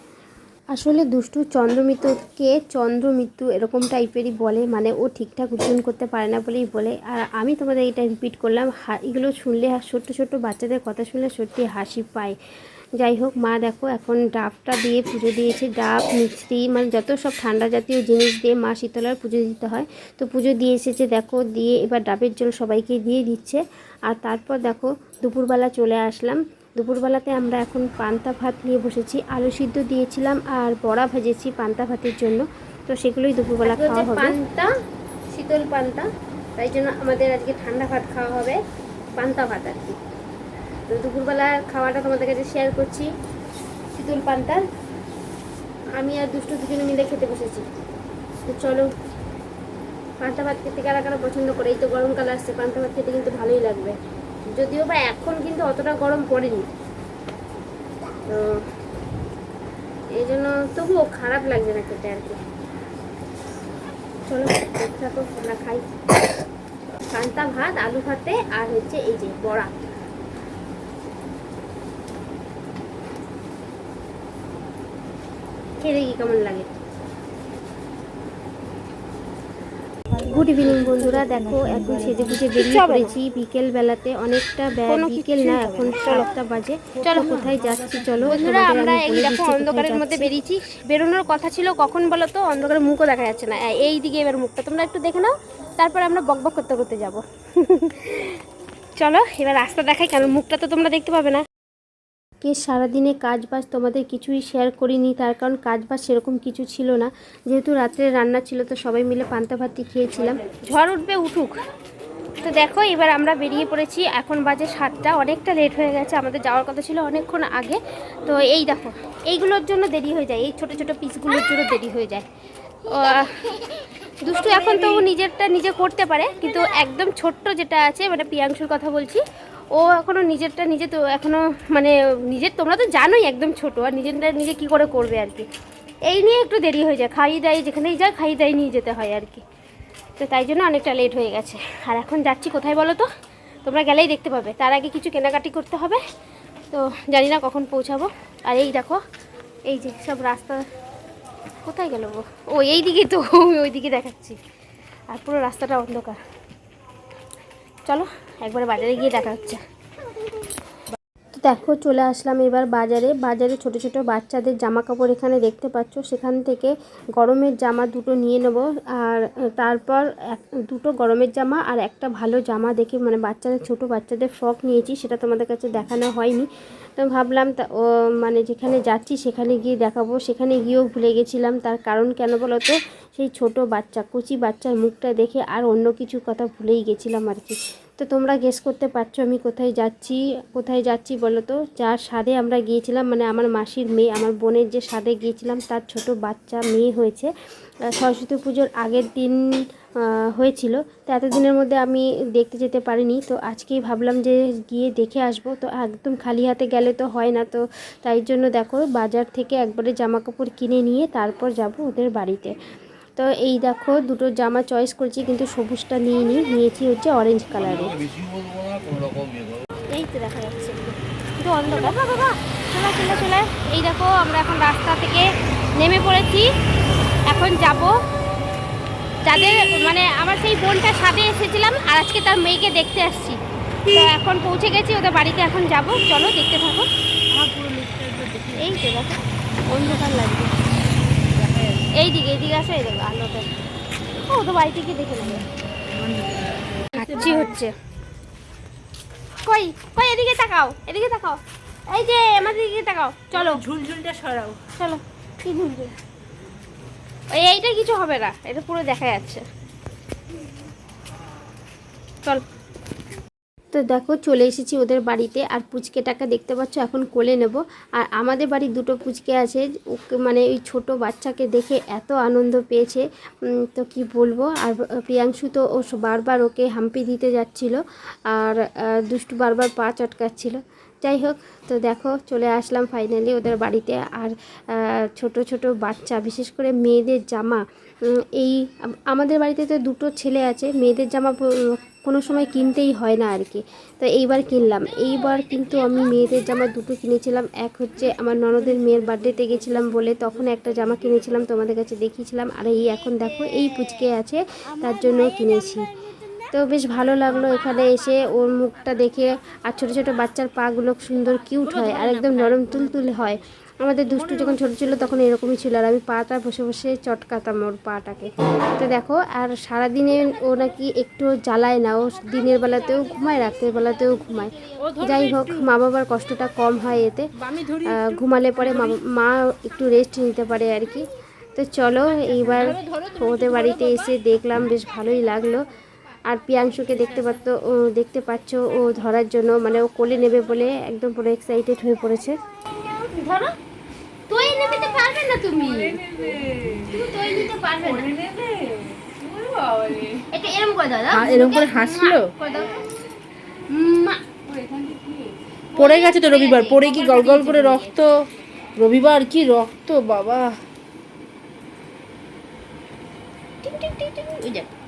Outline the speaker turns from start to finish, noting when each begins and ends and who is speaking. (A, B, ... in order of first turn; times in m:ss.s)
0:00.7-0:12.4 A
0:13.0-0:34.4 A
0:33.6-0:34.7 B
0:35.3-0:36.1 B
0:36.6-0:38.5 B
0:36.6-0:38.6 A
0:39.2-0:40.0 A
0:40.9-0:43.1 A
0:41.5-0:42.3 B
0:44.0-0:44.6 A
0:46.0-0:47.6 A
0:48.5-0:48.9 A
0:50.2-0:54.0 A
0:54.6-0:56.7 A
0:58.3-0:58.6 A
1:00.2-1:02.4 A
1:04.3-1:05.9 A
1:07.1-1:09.8 A
1:15.8-1:16.7 A
1:20.2-1:30.4 A
1:22.3-1:23.2 B
1:24.9-1:26.3 B
1:27.1-1:27.3 B
1:27.1-1:28.2 C
1:28.2-1:38.4 B
1:39.0-1:41.4 B
1:42.4-1:50.6 A
1:50.6-1:51.5 B
1:52.4-2:02.2 B
2:02.9-2:15.5 B
2:04.4-2:05.1 C
2:04.6-2:05.0 A
2:16.1-2:19.4 B
2:20.2-2:23.1 B
2:23.6-2:26.0 B
2:26.7-2:29.0 B
2:29.7-2:30.6 B
2:31.6-2:34.4 B
2:35.1-2:36.2 B
2:37.9-2:39.6 B
2:41.4-3:17.3 A
3:17.9-3:19.4 A
3:20.0-3:32.6 A
3:33.2-3:38.0 A
3:39.9-3:45.3 B
3:41.6-3:42.0 A
3:45.8-3:46.5 B
3:47.3-3:47.9 B
3:49.2-3:56.9 B
3:57.3-3:58.8 C
3:58.6-3:59.2 B
3:59.8-4:00.5 B
4:01.4-4:01.9 C
4:02.0-4:03.5 B
4:04.2-4:05.4 B
4:05.4-4:07.6 C
4:07.0-4:07.4 A
4:07.0-4:07.7 B
4:09.4-4:11.4 B
4:11.9-4:13.6 B
4:13.3-4:14.6 C
4:14.8-4:15.9 B
4:17.3-4:19.4 B
4:23.7-4:33.0 A
4:33.6-4:37.8 A
4:38.3-4:47.6 A
4:48.2-5:05.9 A
5:06.5-5:27.3 A
5:11.6-5:12.8 C
5:14.1-5:15.0 C
5:24.8-5:25.7 C
5:27.4-5:29.0 C
5:27.9-5:35.7 A
5:32.2-5:34.1 C
5:36.3-5:42.4 A
5:43.0-5:43.5 B
5:44.3-5:46.0 B
5:45.7-5:47.0 C
5:46.9-5:48.1 B
5:47.8-5:50.2 C
5:50.3-5:52.9 B
5:51.1-5:52.3 C
5:53.7-5:54.2 B
5:54.6-5:55.2 C
5:55.8-5:58.0 B
5:55.8-5:58.2 C
5:58.8-6:00.6 C
6:03.8-6:04.6 B